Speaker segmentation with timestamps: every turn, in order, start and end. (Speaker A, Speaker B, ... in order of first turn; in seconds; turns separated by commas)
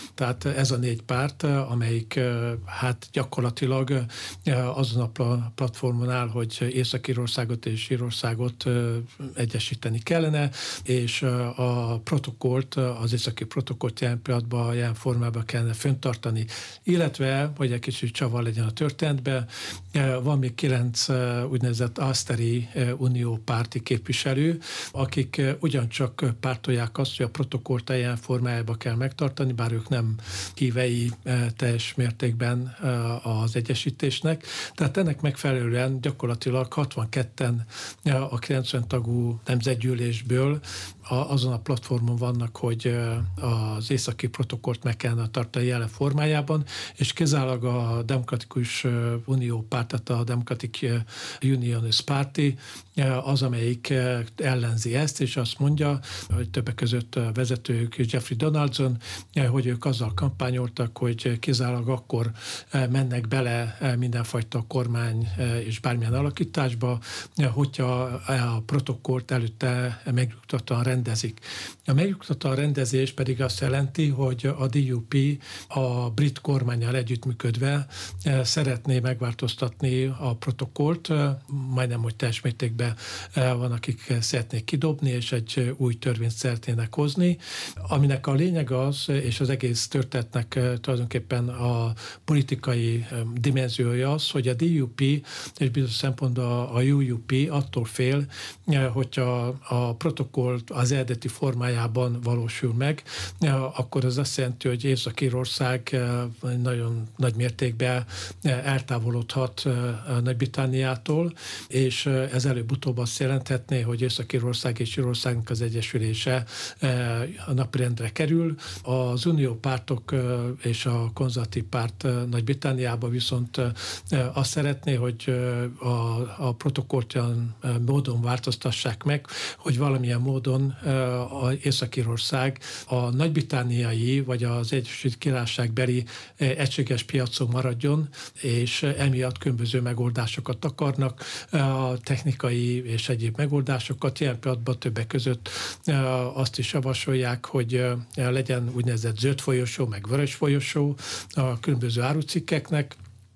Speaker A: 0.1-153.0